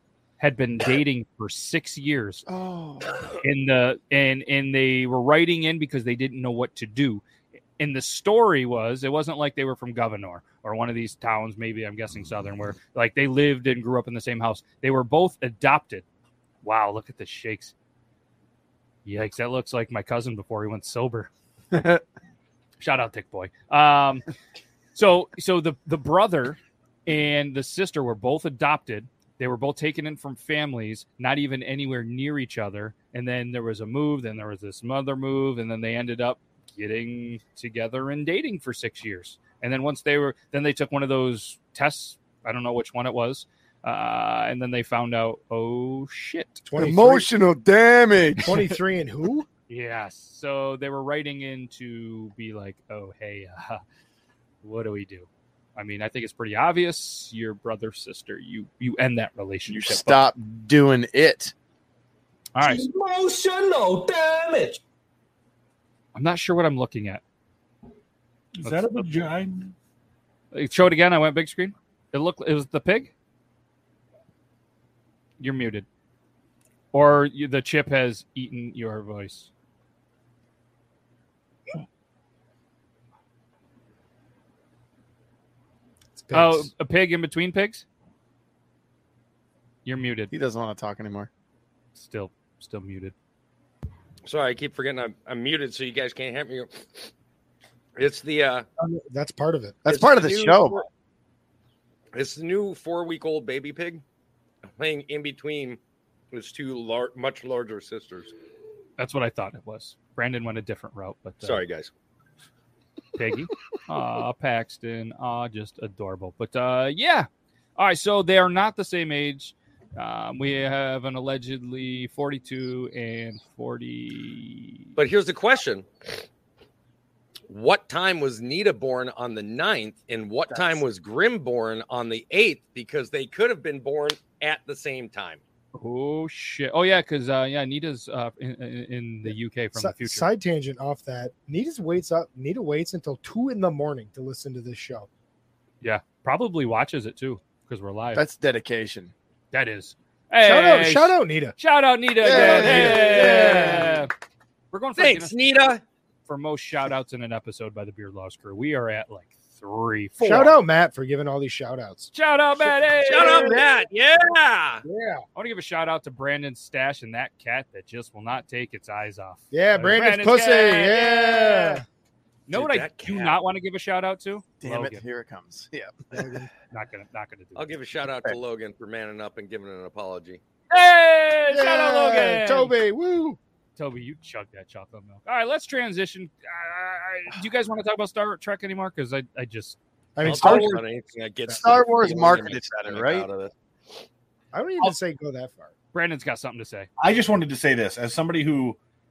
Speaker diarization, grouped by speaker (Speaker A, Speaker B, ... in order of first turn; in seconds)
Speaker A: 0.4-2.5, 3.4-7.2, 7.8-16.0, 16.6-17.7, 19.0-21.3, 22.8-24.2, 24.9-46.6, 49.7-53.8, 54.6-60.3, 62.5-62.8, 66.1-67.2, 68.6-69.1, 70.5-73.1, 75.4-75.8, 76.9-79.5, 86.3-87.8, 89.8-90.3, 91.9-93.1, 109.0-111.6, 113.2-124.9, 135.7-140.3, 145.8-148.2, 149.5-154.1, 154.7-155.3, 156.3-160.6, 162.1-163.6, 165.3-171.8, 172.5-175.0, 176.7-177.7, 180.7-182.8, 183.8-189.8, 195.9-196.9
Speaker B: 2.5-3.4, 21.7-22.0, 46.8-48.5, 59.7-61.5, 90.3-91.3, 99.8-100.8, 148.1-149.1, 152.2-153.9, 174.6-176.3, 191.5-193.3
Speaker C: 46.6-47.3, 48.4-49.5, 86.2-86.7, 98.8-99.8, 139.3-145.1, 150.4-151.6, 152.2-153.9, 160.2-162.1, 163.1-163.6, 164.8-165.2, 169.5-171.8, 176.1-176.5, 181.5-183.4, 190.2-190.8, 194.5-195.7
Speaker D: 62.6-64.8, 68.5-69.7, 197.0-198.8
Speaker E: 94.2-97.1, 98.0-98.7, 99.9-100.9, 102.1-104.0, 104.8-105.8, 106.3-108.3, 111.4-111.9, 125.0-126.2, 127.5-135.4, 155.0-155.8, 163.1-164.8, 172.5-173.4, 177.6-180.4, 190.2-193.5